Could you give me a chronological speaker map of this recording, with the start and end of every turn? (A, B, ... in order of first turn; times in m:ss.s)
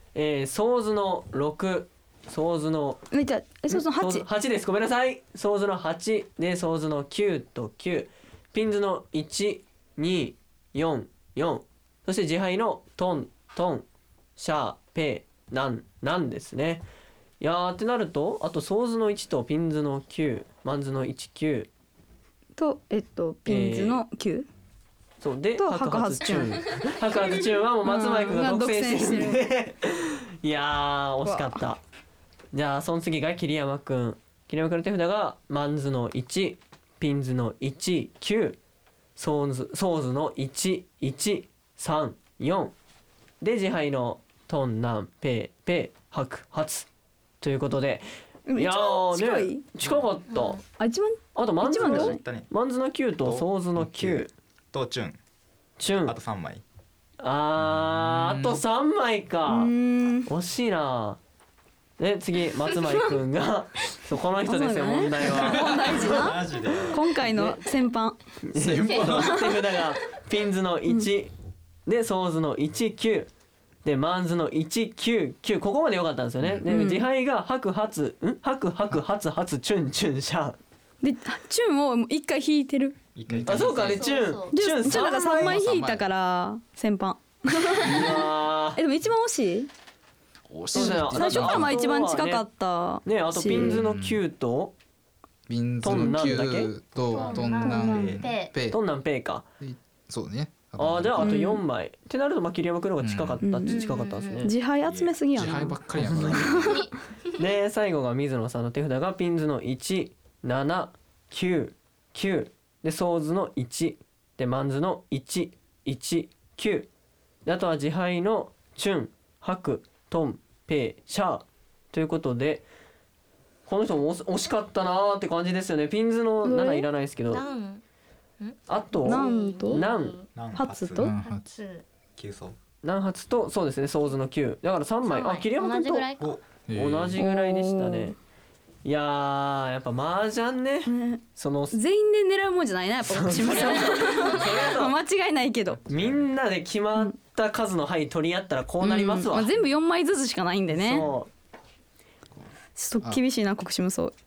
0:00.1-0:03.0 A
0:03.1-0:04.3 B
0:03.7-0:13.8 A
0:14.4-0:16.8 A
0:17.4-0:21.7 A
0:22.6-0:24.5 B
0:23.5-0:24.0 A
0:25.2-0:31.8 A
0:25.6-0:26.8 B
0:26.3-0:27.3 C
0:27.8-0:29.4 B
0:31.2-0:31.6 B
0:32.5-0:38.6 A
0:39.2-0:42.7 A
0:43.4-0:46.9 A
0:47.4-0:50.6 A
0:48.5-0:49.6 B
0:50.3-0:50.6 C
0:50.8-0:52.2 B
0:51.3-0:54.3 A
0:51.7-0:52.5 D
0:53.2-0:55.2 D
0:55.8-0:56.2 A
0:56.0-0:56.6 D
0:57.2-0:59.7 A
0:57.7-0:58.6 E
0:59.5-1:00.3 B
1:00.2-1:01.2 A
1:02.0-1:06.3 A
1:04.4-1:08.2 B
1:05.6-1:07.3 D
1:07.3-1:07.6 A
1:08.4-1:11.3 A
1:08.5-1:09.5 E
1:08.9-1:09.6 B
1:11.8-1:13.3 A
1:13.8-1:20.6 A
1:16.6-1:17.1 B
1:21.0-1:23.0 B
1:23.1-1:24.2 D
1:23.3-1:23.7 E
1:23.5-1:25.6 A
1:23.7-1:24.5 C
1:24.5-1:29.7 B
1:25.1-1:26.1 E
1:27.7-1:28.8 A
1:30.5-1:31.8 E
1:30.7-1:32.4 A
1:30.7-1:33.8 B
1:33.0-1:34.7 A
1:33.4-1:34.2 E
1:35.5-1:38.8 E
1:35.8-1:36.7 A
1:37.0-1:38.2 D
1:37.1-1:38.5 C
1:37.6-1:38.2 B
1:38.7-1:39.4 A
1:39.6-1:41.4 E
1:40.8-1:44.5 A
1:41.2-1:41.6 B
1:43.0-1:43.4 E
1:43.4-1:43.8 B
1:43.7-1:44.5 C
1:44.4-1:45.8 B
1:44.8-1:45.4 D
1:45.3-1:46.8 E
1:46.0-1:46.5 A
1:46.5-1:46.9 C
1:47.4-1:56.9 A
1:57.4-2:02.6 A
2:03.7-2:07.4 A
2:06.4-2:06.9 B
2:07.3-2:07.8 C
2:08.4-2:10.3 C
2:08.7-2:10.2 A
2:09.0-2:09.8 B
2:10.3-2:11.1 D
2:10.6-2:11.1 B
2:11.0-2:11.4 E
2:11.2-2:11.8 C
2:12.2-2:12.6 D
2:12.8-2:16.1 A
2:15.0-2:16.3 C
2:16.7-2:17.2 E
2:16.7-2:18.2 A
2:17.2-2:18.1 B
2:18.8-2:21.8 A
2:20.9-2:21.2 B
2:21.7-2:25.8 B
2:23.0-2:25.0 A
2:23.4-2:24.7 C
2:25.9-2:29.6 A
2:25.9-2:26.2 D
2:28.8-2:31.0 B
2:30.7-2:31.3 A
2:32.8-2:34.1 B